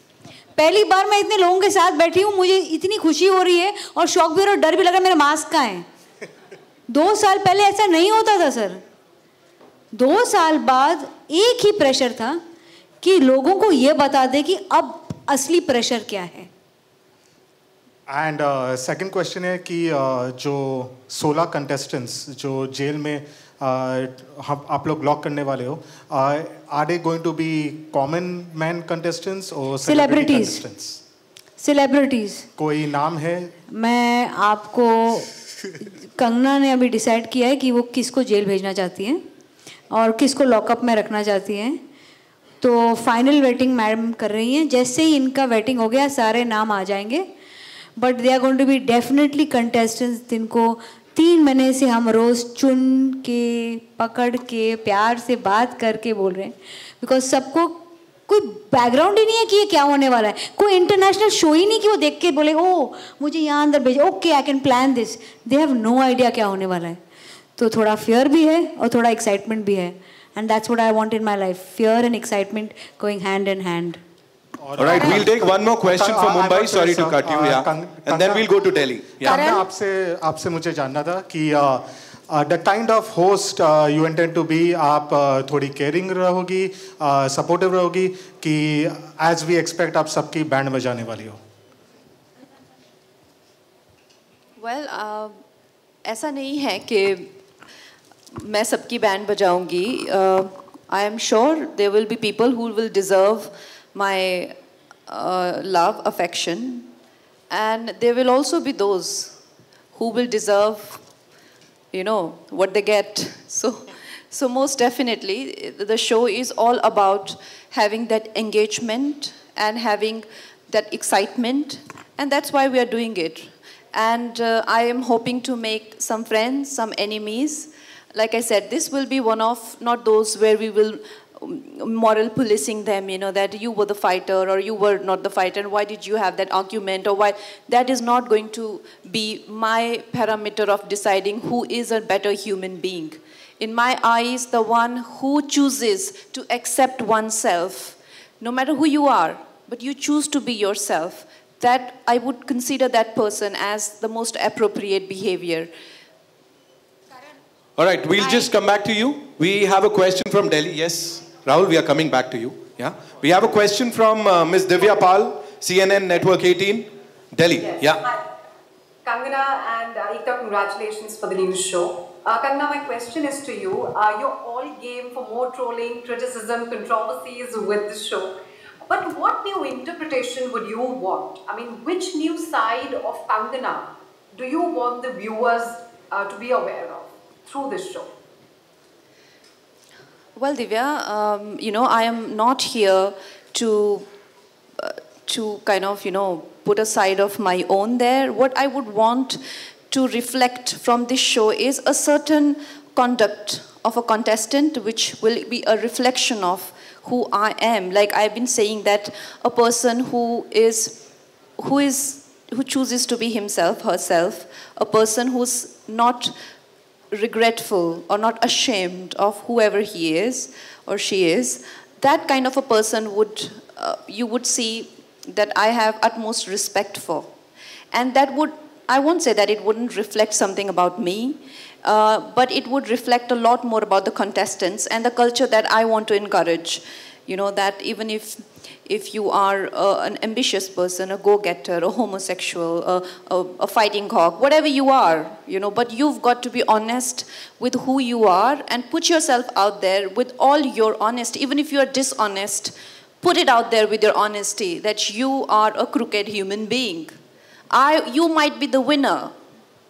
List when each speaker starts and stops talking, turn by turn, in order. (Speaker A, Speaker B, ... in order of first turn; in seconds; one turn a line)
Speaker A: 0.6-5.8
Speaker A: 6.9-8.8
Speaker A: 9.9-12.4
Speaker A: 13.0-16.5
Speaker B: 18.1-31.0
Speaker A: 29.8-30.6
Speaker A: 31.6-32.5
Speaker B: 32.6-33.5
Speaker A: 33.7-39.2
Speaker A: 39.9-41.8
Speaker A: 42.6-47.3
Speaker A: 48.0-67.0
Speaker A: 67.6-74.0
Speaker B: 74.6-78.5
Speaker C: 74.8-79.6
Speaker B: 79.2-91.4
Speaker D: 94.6-95.4
Speaker D: 96.0-97.3
Speaker D: 98.3-104.5
Speaker D: 105.1-106.9
Speaker D: 107.5-109.3
Speaker D: 109.9-111.0
Speaker D: 111.9-155.7
Speaker C: 157.8-168.0
Speaker E: 167.6-168.2
Speaker E: 169.0-188.1
Speaker D: 190.3-194.1
Speaker D: 194.8-211.0
Speaker D: 211.6-216.3
Speaker D: 217.1-227.3
Speaker D: 227.9-257.1
Speaker D: 257.7-259.3